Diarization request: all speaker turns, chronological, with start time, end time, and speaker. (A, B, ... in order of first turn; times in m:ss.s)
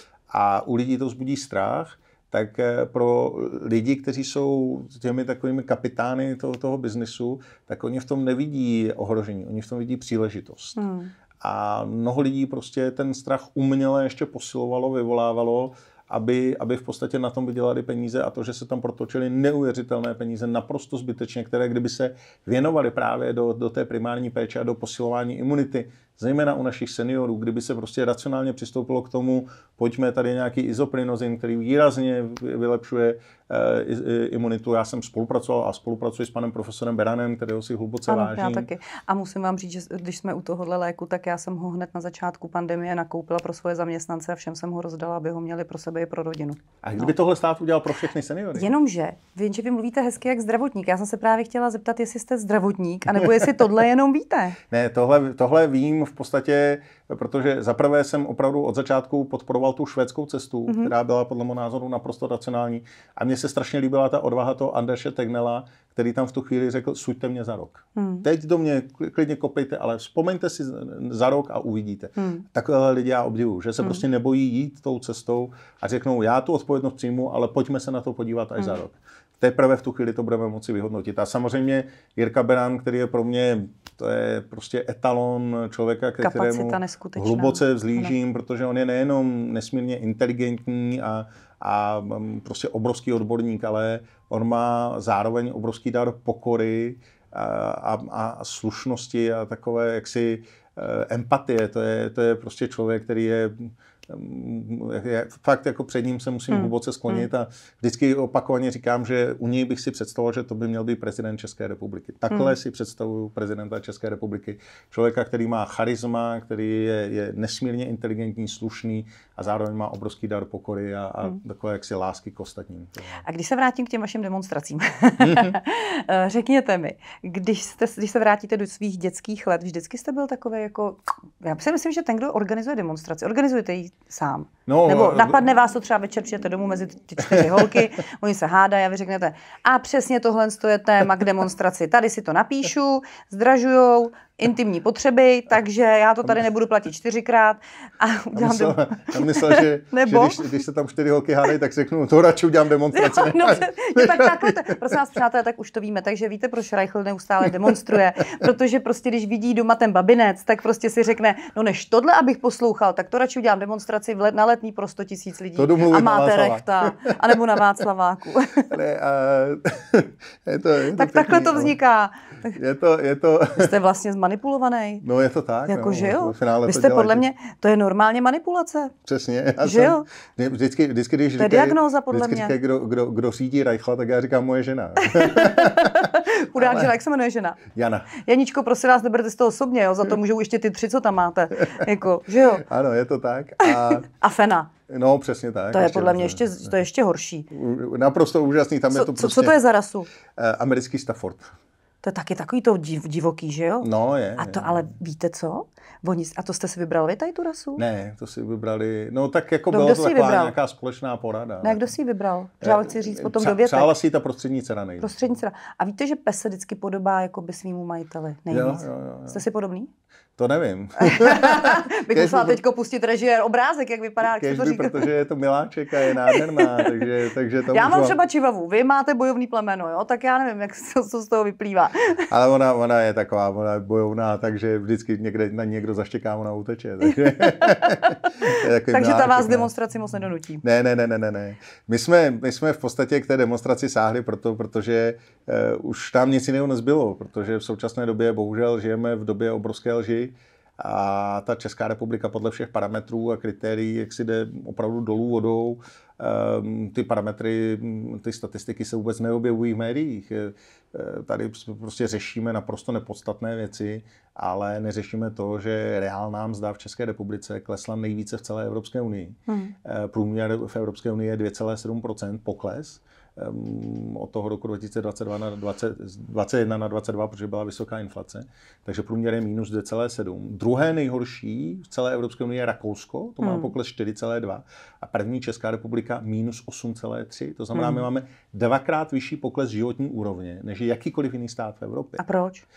0:00.3-0:10.8 A
0:10.8-0:11.1 B
0:11.4-0:38.7 A
0:38.1-0:47.1 B
0:46.8-0:48.7 A
0:48.5-0:54.6 B
0:54.7-2:03.2 A
1:00.7-1:00.9 B
1:08.0-1:08.2 B
1:12.2-1:12.4 B
1:26.2-1:28.1 B
1:46.5-1:47.3 B
2:03.2-2:30.4 B
2:05.2-2:05.6 A
2:14.7-2:15.4 A
2:17.3-2:17.7 A
2:28.3-2:35.0 A
2:32.9-2:48.7 B
2:45.6-2:47.4 A
2:48.7-2:51.8 A
2:50.9-2:52.6 B
2:52.5-2:53.7 A
2:53.5-2:55.0 B
2:55.0-2:57.2 A
2:55.7-2:58.9 B
2:59.0-3:06.9 A
2:59.6-3:00.0 B
3:01.4-3:02.6 B
3:05.0-3:07.6 B
3:07.7-3:08.1 A
3:08.1-3:12.6 B
3:12.6-3:14.1 A
3:13.6-3:14.7 B
3:14.9-3:16.8 A
3:15.7-3:17.5 B
3:17.5-3:19.6 A
3:18.9-3:20.1 B
3:20.4-3:21.5 A
3:22.0-3:27.8 B
3:23.8-3:25.0 A
3:27.8-3:31.9 A
3:29.7-3:30.6 B
3:31.6-3:33.9 B
3:32.6-3:35.3 A
3:35.0-3:39.9 B
3:38.5-3:39.4 A
3:40.4-3:42.6 A
3:41.0-3:45.1 B
3:44.3-3:48.2 A
3:46.0-3:47.1 B
3:47.7-3:52.2 B
3:52.3-3:59.7 A
3:57.3-4:00.6 B
4:00.6-4:52.2 A
4:29.5-4:29.7 B
4:43.4-4:43.7 B
4:47.7-4:48.0 B
4:52.2-4:52.6 B